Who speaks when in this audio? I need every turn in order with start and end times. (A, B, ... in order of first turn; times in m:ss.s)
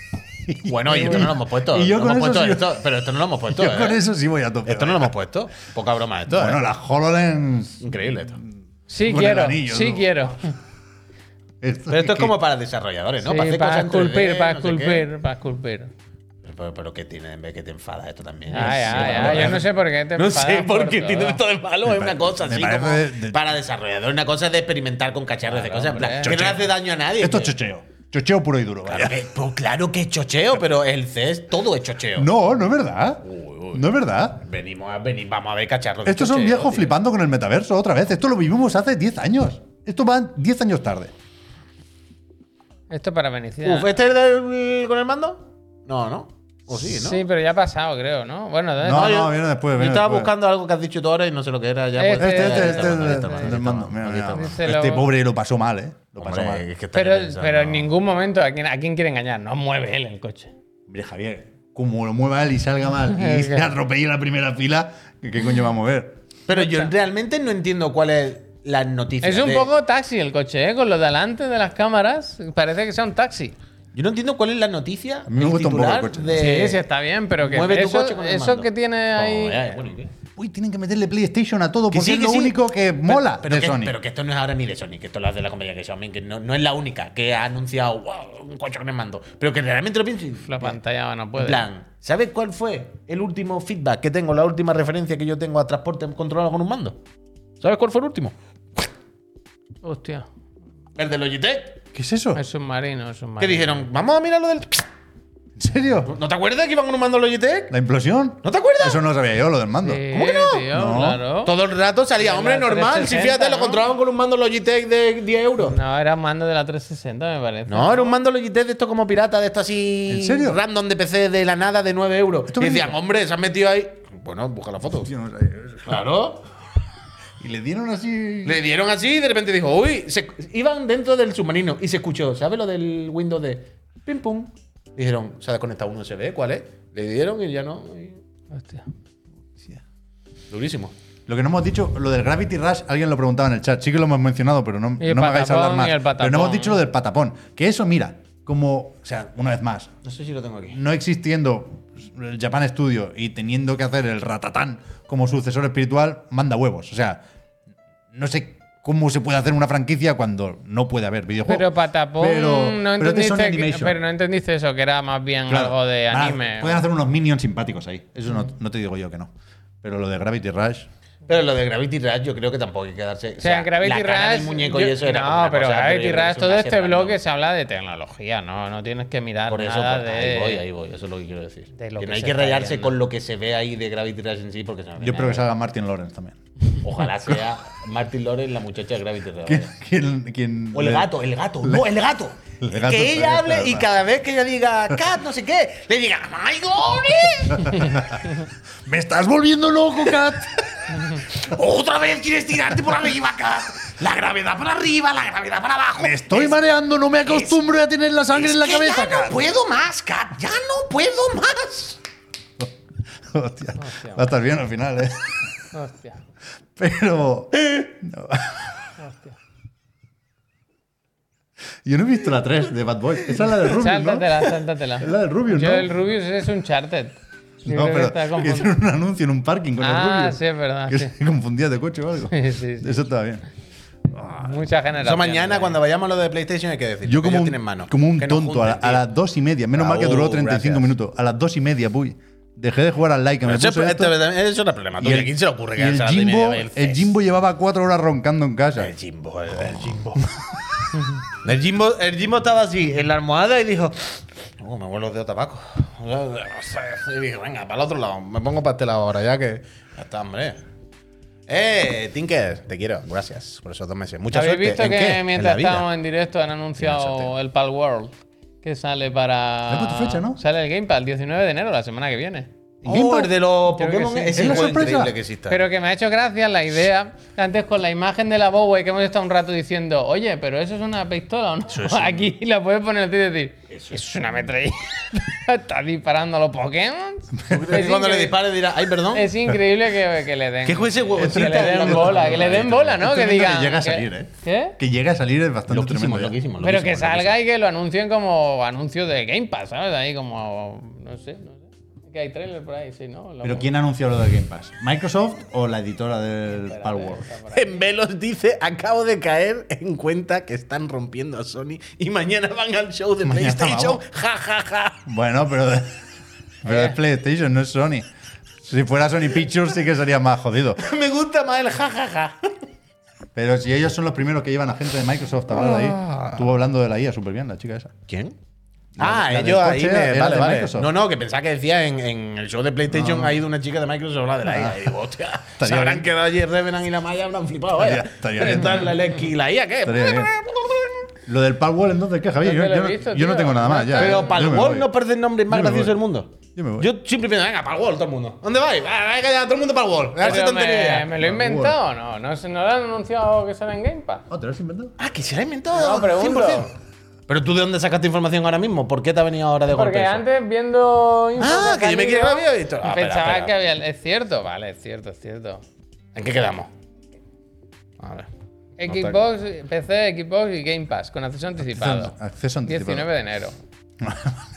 0:00.4-0:02.8 A
0:00.6-0:04.0 B
0:00.9-0:01.2 C
0:03.5-0:05.1 A
0:04.6-0:06.6 B
0:06.3-0:07.8 A
0:07.8-0:08.4 B
0:08.9-0:10.5 C
0:09.0-0:10.2 A
0:11.6-0:12.3 A
0:11.9-0:15.1 B
0:13.2-0:15.9 C
0:16.4-0:27.5 B
0:18.5-0:21.4 C
0:18.5-0:19.6 A
0:21.8-0:23.4 A
0:25.5-0:26.4 C
0:26.2-0:29.2 A
0:28.9-0:32.3 B
0:32.2-0:34.4 A
0:33.2-0:36.9 B
0:36.0-0:41.1 A
0:42.9-0:43.9 C
0:43.6-0:47.2 B
0:46.8-0:49.2 C
0:48.8-0:50.3 A
0:48.9-0:54.6 B
0:52.0-0:53.6 C
0:52.2-0:56.6 A
0:54.3-0:55.1 C
0:56.2-0:57.9 B
0:56.9-1:00.5 C
1:00.9-1:06.2 A
1:03.1-1:03.7 C
1:06.5-1:09.7 B
1:06.5-1:06.9 C
1:09.2-1:13.6 C
1:13.9-1:16.8 B
1:15.3-1:16.5 A
1:16.4-1:19.7 C
1:17.4-1:20.1 B
1:20.4-1:24.0 A
1:21.9-1:30.8 B
1:30.4-1:31.6 C
1:31.4-1:37.0 B
1:37.6-1:38.3 B
1:39.8-1:40.3 C
1:41.0-1:41.8 B
1:41.9-1:42.4 A
1:42.3-1:43.8 C
1:43.4-1:44.8 B
1:45.6-1:46.1 A
1:46.0-1:47.7 B
1:47.7-1:50.1 A
1:48.4-1:49.0 B
1:49.8-1:51.5 C
1:50.1-1:50.7 B
1:50.7-1:51.2 A
1:51.4-1:55.8 B
1:52.2-1:53.8 C
1:55.6-1:58.2 C
1:57.7-2:05.1 B
2:00.1-2:00.6 A
2:02.5-2:03.0 A
2:05.0-2:06.0 A
2:05.8-2:06.4 B
2:07.4-2:08.6 A
2:08.4-2:18.2 B
2:18.5-2:18.8 C
2:20.5-2:20.9 B
2:21.3-2:29.9 A
2:25.0-2:26.8 C
2:30.0-2:30.8 B
2:30.7-2:37.2 A
2:38.1-2:44.0 A
2:41.4-2:46.8 C
2:45.5-2:49.3 A
2:49.8-2:50.9 A
2:51.3-2:57.2 B
2:53.4-3:00.6 C
2:59.5-3:05.4 B
3:01.7-3:02.9 C
3:05.0-3:06.4 A
3:06.8-3:09.7 B
3:09.4-3:11.9 A
3:10.7-3:18.2 B
3:12.6-3:13.9 A
3:17.5-3:18.3 A
3:18.8-3:21.1 A
3:20.9-3:26.6 B
3:26.0-3:29.5 A
3:27.2-3:27.6 B
3:28.3-3:32.0 B
3:33.2-3:35.5 A
3:33.8-3:34.2 C
3:35.7-3:36.2 C
3:36.8-3:38.9 A
3:39.0-3:39.3 C
3:41.8-3:45.9 A
3:43.6-3:48.7 C
3:47.7-3:53.4 A
3:49.8-3:51.1 C
3:52.3-3:53.0 C
3:54.1-3:54.4 A
3:54.3-3:55.8 C
3:55.0-3:59.0 B
3:57.0-4:04.2 A
3:59.7-4:00.9 B
4:03.4-4:07.1 B
4:05.0-4:08.9 A
4:08.8-4:10.3 B
4:11.3-4:20.6 B
4:21.5-4:25.9 B
4:24.3-4:32.5 C
4:26.8-4:27.3 B
4:29.7-4:30.4 A
4:32.8-4:33.3 A
4:32.8-4:35.6 B
4:33.8-4:34.9 C
4:34.3-4:35.1 A
4:35.5-4:48.4 C
4:41.7-4:42.3 B
4:47.5-4:49.3 B
4:49.1-4:54.8 C
4:50.6-4:53.0 B
4:51.2-4:56.4 A
4:55.7-4:57.4 B
4:56.6-5:03.7 C
5:03.4-5:07.3 A
5:06.5-5:07.8 C
5:07.5-5:15.0 B
5:13.2-5:14.0 A
5:15.0-5:16.0 A
5:16.6-5:18.1 A
5:16.7-5:17.0 C
5:18.6-5:20.8 A
5:20.8-5:22.4 B
5:23.3-5:27.9 A
5:25.5-5:26.4 B
5:28.1-5:28.3 B
5:29.0-5:30.9 A
5:29.0-5:41.1 B
5:32.9-5:33.4 A
5:34.4-5:34.9 A
5:35.6-5:36.1 A
5:37.8-5:39.0 A
5:39.8-5:40.3 A
5:41.3-5:44.9 A
5:42.4-5:44.5 C
5:43.9-5:51.1 B
5:45.5-5:46.0 A
5:46.5-5:46.9 A
5:50.2-5:54.2 C
5:51.2-5:51.8 A
5:54.3-5:54.9 A
5:55.0-5:56.7 B
5:55.7-5:56.7 C
5:57.3-6:00.2 B
5:59.7-6:05.6 C
6:01.4-6:03.6 B
6:06.1-6:06.7 B
6:08.0-6:08.3 B
6:08.8-6:12.1 C
6:08.9-6:09.2 B
6:11.6-6:13.1 A
6:12.6-6:13.5 C
6:14.0-6:14.4 A